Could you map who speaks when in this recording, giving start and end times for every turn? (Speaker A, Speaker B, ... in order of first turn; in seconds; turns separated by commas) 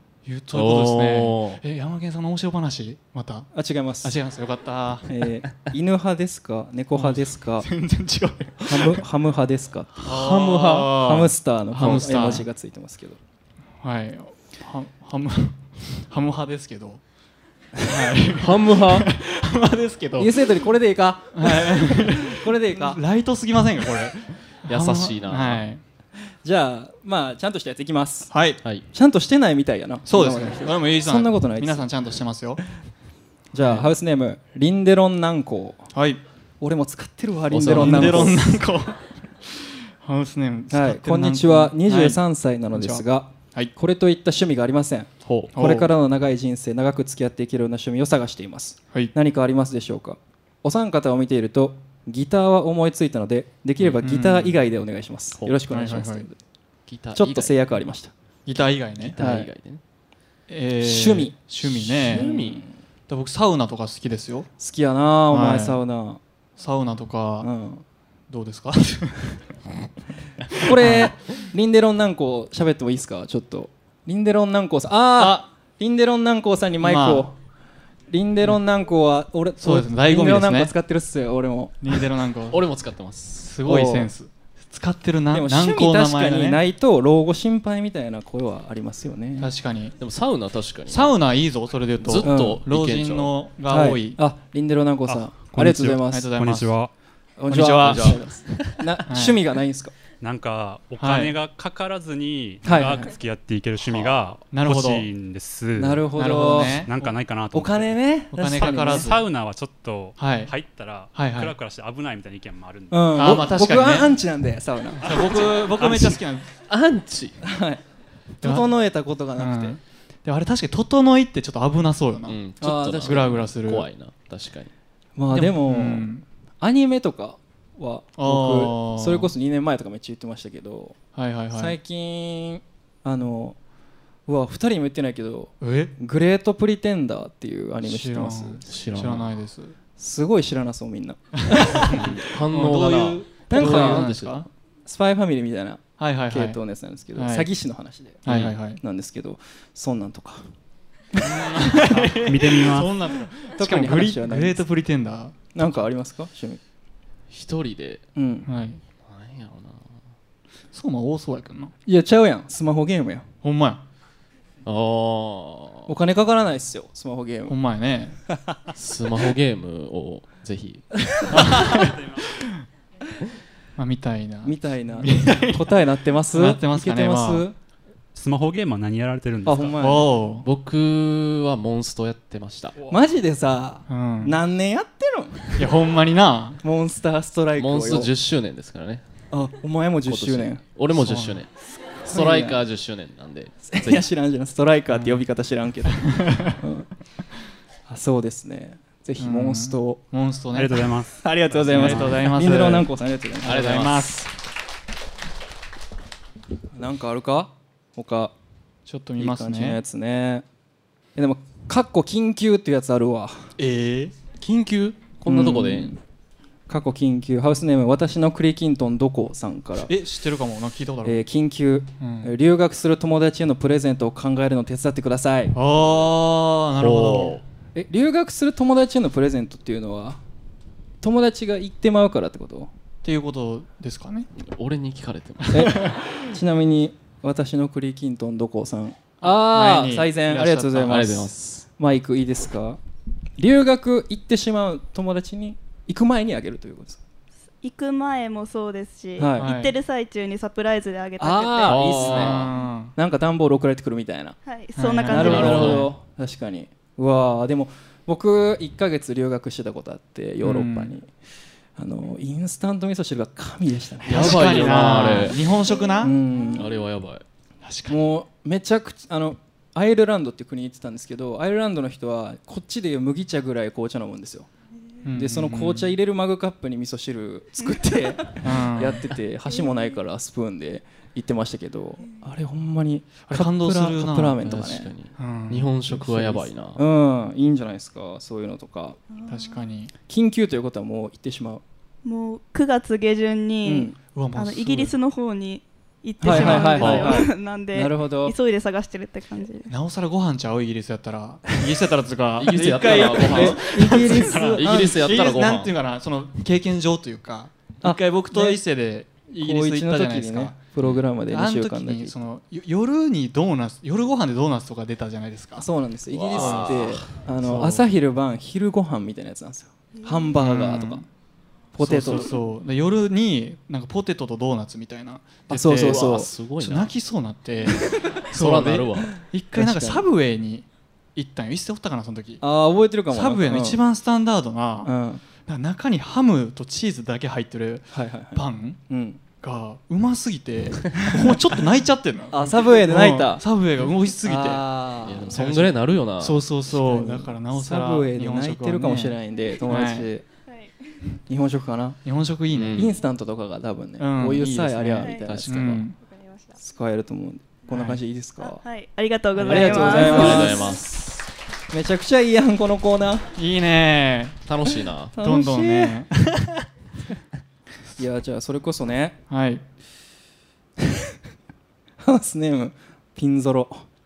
Speaker A: 0.2-5.1, Speaker B: 0.5-1.6, Speaker C: 3.5-4.2, Speaker C: 5.1-7.7, Speaker A: 6.9-9.0, Speaker C: 8.6-9.9, Speaker B: 10.0-11.0, Speaker A: 10.0-12.5, Speaker C: 11.0-13.2, Speaker B: 11.7-12.2, Speaker A: 13.8-17.0, Speaker A: 17.8-20.4, Speaker B: 18.4-19.1, Speaker C: 20.2-23.0, Speaker A: 21.4-25.8, Speaker B: 24.7-25.6, Speaker C: 26.4-28.3, Speaker A: 28.3-28.6, Speaker C: 28.9-31.9, Speaker A: 30.1-32.6, Speaker C: 33.5-35.9, Speaker A: 33.6-33.9, Speaker A: 35.9-36.2, Speaker C: 36.6-38.5, Speaker B: 37.5-38.4, Speaker A: 37.5-42.2, Speaker C: 40.7-56.4, Speaker A: 42.7-43.7, Speaker A: 45.2-45.9, Speaker A: 54.0-54.6, Speaker A: 55.7-56.3, Speaker B: 56.9-57.7, Speaker C: 57.1-58.1, Speaker A: 58.5-59.2, Speaker B: 59.0-59.8, Speaker C: 59.0-59.5, Speaker A: 60.5-62.3, Speaker C: 60.8-62.7, Speaker B: 61.6-62.6, Speaker A: 63.1-64.5, Speaker C: 64.6-66.2, Speaker A: 65.3-65.8, Speaker A: 66.6-67.5, Speaker C: 67.4-67.8, Speaker A: 68.3-69.4, Speaker A: 70.6-71.2, Speaker C: 70.6-77.4, Speaker A: 75.2-75.5, Speaker A: 76.8-77.3, Speaker C: 78.1-81.9, Speaker A: 79.6-80.7, Speaker A: 81.8-82.6, Speaker B: 82.5-83.5, Speaker A: 83.4-86.6, Speaker C: 83.7-84.1, Speaker C: 85.3-89.5, Speaker A: 89.4-90.0, Speaker B: 90.0-91.2, Speaker A: 90.9-94.2, Speaker B: 92.0-93.3, Speaker C: 92.2-92.6, Speaker C: 93.7-96.3, Speaker A: 95.5-96.8, Speaker D: 96.4-96.9, Speaker C: 97.4-99.9, Speaker A: 97.5-98.2, Speaker B: 97.8-98.9, Speaker A: 99.1-99.4, Speaker D: 100.2-108.0, Speaker A: 101.0-101.3, Speaker C: 102.6-103.1, Speaker B: 103.8-104.1, Speaker A: 104.5-105.1, Speaker C: 105.8-106.9, Speaker A: 106.1-107.1, Speaker C: 107.5-109.1, Speaker A: 108.3-109.2, Speaker D: 108.6-113.4, Speaker A: 110.2-110.5, Speaker A: 111.1-111.5, Speaker C: 112.9-116.2, Speaker A: 113.2-114.1, Speaker A: 115.0-116.5, Speaker D: 115.2-116.1, Speaker B: 116.7-117.4, Speaker C: 117.4-117.8, Speaker C: 118.4-119.8, Speaker A: 118.4-118.7, Speaker A: 119.4-122.4, Speaker B: 122.3-124.7, Speaker C: 122.6-123.4, Speaker A: 123.0-123.9, Speaker C: 125.2-131.0, Speaker A: 125.3-126.2, Speaker A: 128.2-129.3, Speaker A: 131.1-131.8, Speaker C: 131.5-133.6, Speaker C: 134.3-138.6, Speaker A: 135.6-135.9, Speaker A: 137.8-139.8, Speaker B: 138.6-139.4, Speaker C: 140.0-142.1, Speaker A: 141.5-144.5, Speaker B: 141.9-144.5, Speaker C: 143.5-144.1, Speaker C: 144.8-148.2, Speaker A: 146.0-146.6, Speaker A: 147.2-147.5, Speaker A: 148.2-148.8, Speaker B: 148.3-148.6, Speaker C: 148.8-150.5, Speaker A: 151.2-155.8, Speaker C: 151.6-152.1, Speaker D: 152.2-153.1, Speaker C: 153.5-154.6, Speaker C: 155.5-156.6, Speaker B: 157.3-158.0, Speaker C: 158.2-158.5, Speaker A: 158.5-158.8, Speaker B: 159.0-160.0, Speaker A: 160.7-161.7, Speaker C: 161.8-163.3, Speaker A: 163.4-163.8, Speaker B: 164.6-165.9, Speaker C: 165.9-167.6, Speaker A: 167.5-168.2, Speaker B: 168.7-171.5, Speaker A: 171.3-172.5, Speaker D: 171.7-172.0, Speaker A: 173.8-175.8, Speaker C: 174.4-177.6, Speaker A: 176.3-177.4, Speaker D: 178.2-179.8, Speaker C: 179.4-180.2, Speaker A: 179.8-180.5, Speaker B: 180.4-182.8, Speaker C: 182.9-185.6, Speaker A: 183.9-184.4, Speaker A: 185.6-186.6, Speaker C: 186.6-188.1, Speaker B: 187.6-189.0, Speaker C: 189.3-190.6, Speaker B: 190.1-194.1, Speaker A: 190.9-191.4, Speaker C: 192.1-192.6, Speaker C: 193.6-196.9, Speaker A: 194.9-195.2, Speaker A: 195.9-196.6, Speaker C: 197.9-200.0, Speaker A: 199.2-200.9, Speaker D: 200.5-201.2, Speaker C: 201.2-203.8, Speaker A: 201.6-202.9, Speaker D: 201.8-202.1, Speaker A: 203.4-204.3, Speaker B: 203.4-204.1, Speaker C: 206.7-208.3, Speaker A: 208.8-209.8, Speaker C: 209.2-210.4, Speaker C: 211.2-213.5, Speaker A: 213.6-214.2, Speaker B: 214.4-215.9, Speaker C: 215.2-216.0, Speaker C: 216.7-219.9, Speaker A: 219.8-221.2, Speaker C: 221.0-225.6, Speaker A: 222.0-222.3, Speaker A: 225.5-227.4, Speaker B: 226.8-227.4, Speaker C: 227.7-230.2, Speaker C: 231.0-232.7, Speaker A: 233.0-234.3, Speaker B: 234.4-235.8, Speaker A: 235.4-236.1, Speaker C: 235.5-242.8, Speaker A: 239.2-241.1, Speaker B: 240.8-241.7, Speaker C: 243.4-247.0, Speaker E: 247.6-252.4, Speaker C: 249.2-249.5, Speaker A: 249.4-249.7, Speaker C: 251.2-254.3, Speaker B: 251.6-252.5, Speaker A: 252.1-252.9, Speaker E: 254.4-255.8, Speaker A: 254.8-255.9, Speaker C: 255.1-261.1, Speaker B: 255.1-255.9, Speaker A: 260.4-260.9, Speaker C: 261.8-265.3, Speaker B: 264.1-265.4, Speaker A: 264.1-266.2, Speaker C: 266.0-266.8, Speaker B: 266.5-267.2, Speaker A: 267.6-268.0, Speaker C: 267.9-274.5, Speaker A: 275.0-275.9, Speaker C: 275.1-284.9, Speaker A: 278.4-279.1, Speaker A: 283.3-284.4, Speaker B: 284.4-286.8, Speaker A: 285.2-286.2, Speaker C: 285.9-289.0, Speaker E: 289.2-289.6, Speaker A: 289.3-289.9, Speaker C: 290.1-291.6, Speaker E: 292.0-299.7, Speaker C: 293.6-293.9, Speaker A: 294.1-294.9, Speaker C: 296.2-298.3, Speaker A: 296.3-297.1, Speaker B: 296.8-297.1, Speaker A: 299.7-310.6, Speaker B: 302.4-305.7, Speaker C: 302.5-304.9, Speaker C: 307.8-308.6, Speaker C: 309.4-312.1, Speaker A: 311.3-315.7, Speaker C: 315.6-321.1, Speaker B: 316.1-317.2, Speaker A: 316.3-317.8, Speaker A: 320.4-321.1, Speaker C: 321.7-322.3, Speaker A: 321.8-332.4, Speaker C: 325.5-326.3, Speaker B: 325.7-326.9, Speaker B: 328.3-329.1, Speaker C: 329.6-330.1, Speaker C: 332.4-333.8, Speaker A: 333.1-338.8, Speaker C: 334.8-335.2, Speaker C: 337.9-339.2, Speaker A: 339.4-344.7, Speaker C: 342.3-343.4, Speaker C: 344.2-345.3, Speaker B: 345.0-346.4, Speaker A: 345.3-350.1, Speaker C: 346.7-350.2, Speaker E: 350.5-350.7, Speaker C: 351.3-352.0, Speaker A: 352.0-352.9, Speaker B: 352.5-352.9, Speaker C: 352.8-355.8, Speaker A: 354.0-356.0, Speaker E: 355.0-356.6, Speaker B: 355.3-355.6, Speaker C: 356.6-358.6, Speaker A: 357.7-358.0, Speaker E: 358.4-360.8, Speaker A: 359.4-360.5, Speaker C: 359.4-361.1, Speaker B: 359.9-360.9, Speaker C: 361.7-363.3, Speaker A: 363.4-364.4, Speaker B: 364.4-365.1, Speaker C: 365.1-366.1, Speaker A: 365.2-366.7, Speaker C: 368.0-369.2, Speaker A: 369.3-369.6, Speaker C: 372.0-373.8